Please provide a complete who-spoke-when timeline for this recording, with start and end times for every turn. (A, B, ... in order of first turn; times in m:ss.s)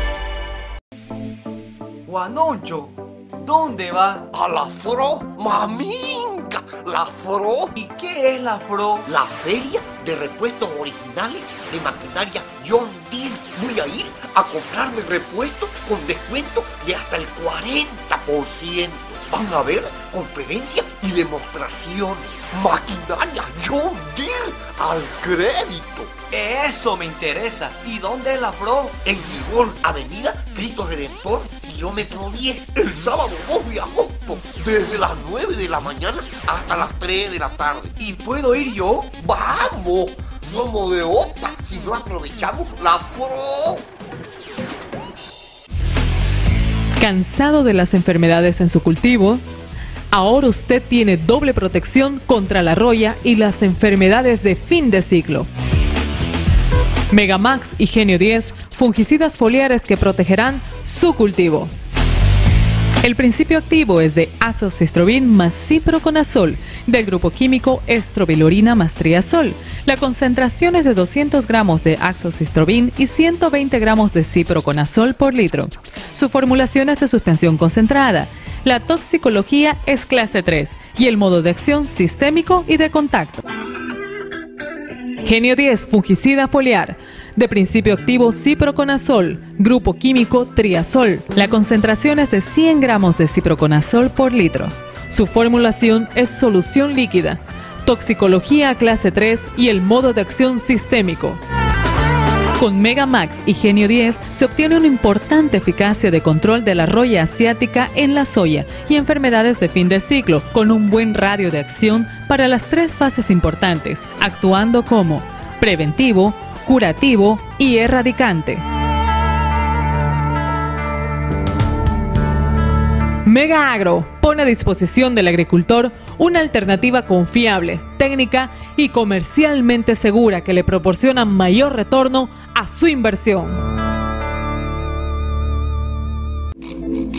0:02.0-0:04.2 A
0:04.3-0:07.8 B
0:07.8-0:09.0 A
0:09.0-0:26.1 B
0:26.3-0:29.0 A
0:29.0-0:37.9 B
0:38.0-0:39.1 A
0:39.2-0:43.8 B
0:47.0-0:49.4 C
0:50.1-0:55.5 C
0:57.1-1:01.7 C
1:03.0-1:23.4 C
1:25.2-1:41.4 C
1:42.6-1:58.6 C
2:03.2-2:13.6 C